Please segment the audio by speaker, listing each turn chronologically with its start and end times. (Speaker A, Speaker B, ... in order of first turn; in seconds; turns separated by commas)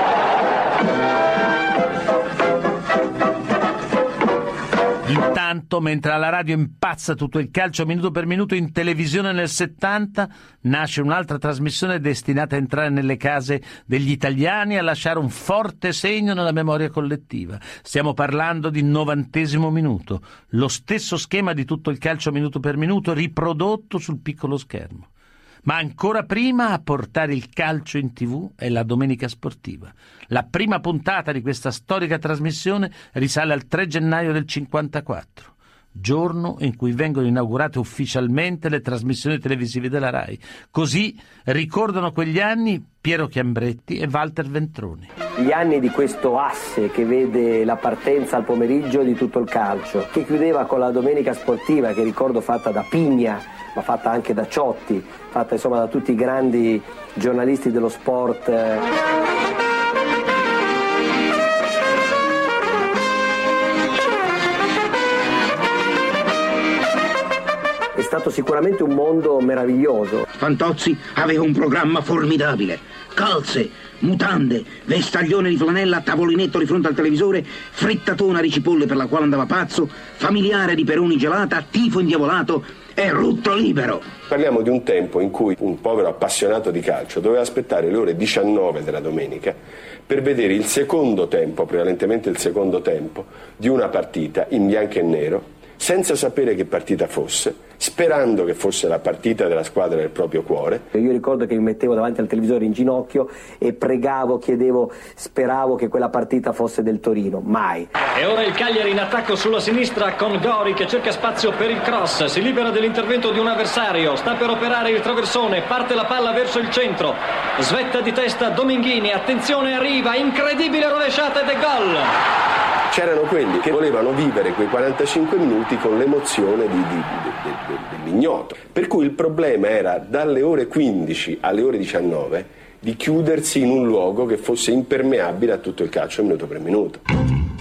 Speaker A: 5.0-25.1, Speaker A: 25.6-45.1, Speaker B: 45.4-58.8, Speaker B: 68.0-70.2, Speaker C: 70.4-84.0, Speaker D: 84.3-89.6, Speaker D: 90.1-100.9, Speaker B: 100.9-107.9, Speaker E: 108.1-122.1, Speaker D: 122.9-137.0